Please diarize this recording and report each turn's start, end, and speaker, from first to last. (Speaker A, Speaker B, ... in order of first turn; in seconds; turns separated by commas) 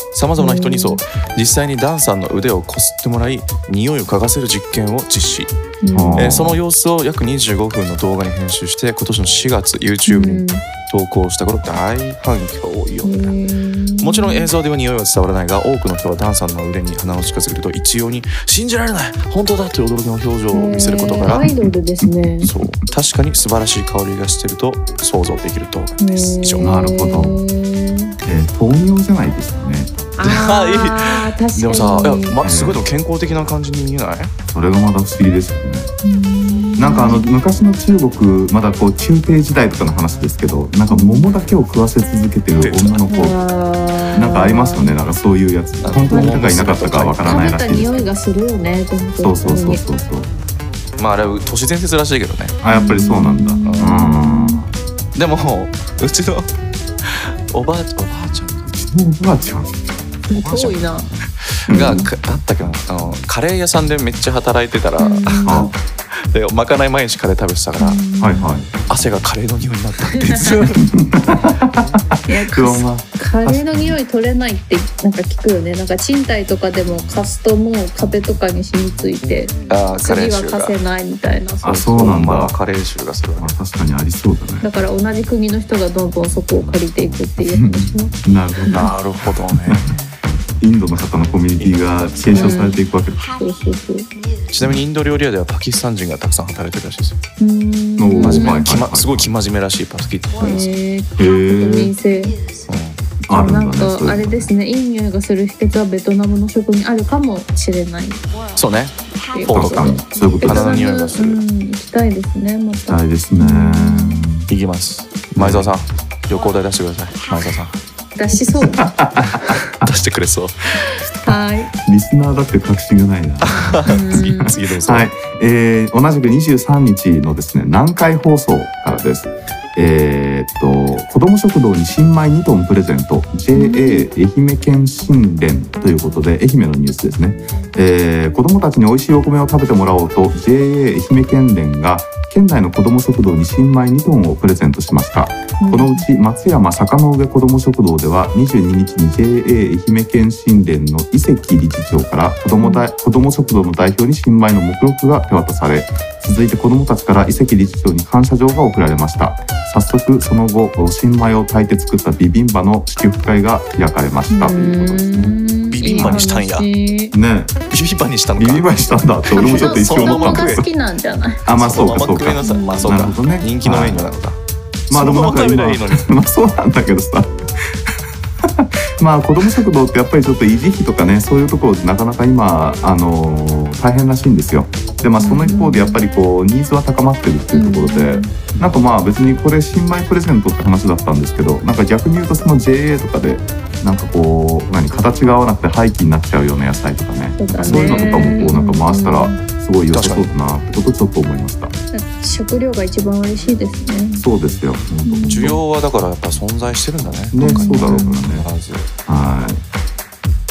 Speaker A: 0.1-5.5, Speaker B: 0.4-1.0, Speaker B: 5.8-6.3, Speaker C: 5.9-6.6, Speaker A: 6.2-13.4, Speaker B: 10.1-10.6, Speaker B: 13.0-14.5, Speaker A: 14.0-21.5, Speaker B: 20.5-22.5, Speaker C: 21.3-22.7, Speaker A: 22.4-26.8, Speaker B: 26.0-28.1, Speaker C: 26.6-27.4, Speaker C: 28.2-29.9, Speaker B: 30.2-32.4, Speaker A: 30.2-34.3, Speaker C: 32.4-32.8, Speaker C: 34.5-35.9, Speaker B: 36.0-37.2, Speaker C: 36.8-43.4, Speaker B: 40.9-41.3, Speaker A: 42.6-43.0, Speaker B: 43.1-45.0, Speaker C: 44.1-48.1, Speaker A: 45.8-47.5, Speaker B: 46.0-49.8, Speaker C: 49.2-50.3, Speaker A: 51.0-52.6, Speaker C: 52.6-54.7, Speaker B: 52.7-54.6, Speaker A: 53.6-54.1, Speaker A: 55.1-56.5, Speaker A: 57.0-58.7, Speaker C: 58.7-60.8, Speaker B: 60.3-61.1, Speaker A: 61.5-68.0, Speaker C: 61.7-62.1, Speaker B: 61.7-62.1, Speaker B: 65.0-65.7, Speaker C: 65.5-65.7, Speaker B: 67.8-68.5, Speaker C: 68.2-68.7, Speaker A: 68.8-70.8, Speaker B: 70.1-70.6, Speaker C: 70.8-74.0, Speaker B: 72.3-82.0, Speaker A: 79.7-80.8, Speaker C: 81.6-82.6, Speaker A: 81.8-83.6, Speaker C: 83.4-84.7, Speaker B: 84.6-88.9, Speaker C: 87.4-88.9, Speaker A: 88.7-90.1, Speaker C: 89.5-89.9, Speaker C: 90.6-93.2, Speaker A: 91.6-92.6, Speaker B: 92.3-94.1, Speaker A: 94.5-97.2, Speaker B: 97.4-98.6, Speaker C: 98.0-99.3, Speaker A: 98.2-100.6, Speaker B: 100.4-102.4, Speaker C: 101.2-101.9, Speaker A: 102.7-103.0, Speaker C: 103.2-104.5, Speaker B: 103.3-108.2, Speaker A: 108.5-111.4, Speaker B: 109.3-114.2, Speaker C: 109.5-110.8, Speaker C: 112.9-114.5, Speaker A: 114.5-117.8, Speaker C: 115.4-115.7, Speaker B: 118.2-118.8, Speaker C: 118.6-119.8, Speaker A: 119.3-120.8, Speaker B: 121.2-121.7, Speaker C: 121.8-165.4, Speaker A: 123.4-125.1, Speaker B: 123.8-124.5, Speaker B: 133.5-134.1, Speaker B: 145.6-146.1, Speaker B: 152.6-152.9, Speaker B: 164.3-167.1, Speaker A: 165.7-166.7, Speaker C: 165.9-166.2, Speaker C: 167.1-167.6, Speaker A: 167.7-168.7, Speaker C: 168.4-170.6, Speaker A: 169.3-170.6, Speaker B: 169.3-171.4, Speaker C: 171.5-174.1, Speaker A: 171.6-174.4, Speaker B: 172.4-173.0, Speaker C: 174.9-201.7, Speaker A: 174.9-176.1, Speaker B: 185.2-186.0, Speaker B: 187.5-188.3, Speaker B: 197.4-199.4, Speaker A: 197.6-198.5, Speaker A: 199.9-200.3, Speaker B: 201.9-204.2, Speaker C: 204.2-205.6, Speaker B: 205.0-205.6, Speaker A: 205.3-208.9, Speaker C: 207.3-208.5, Speaker B: 207.4-208.2, Speaker C: 209.1-209.6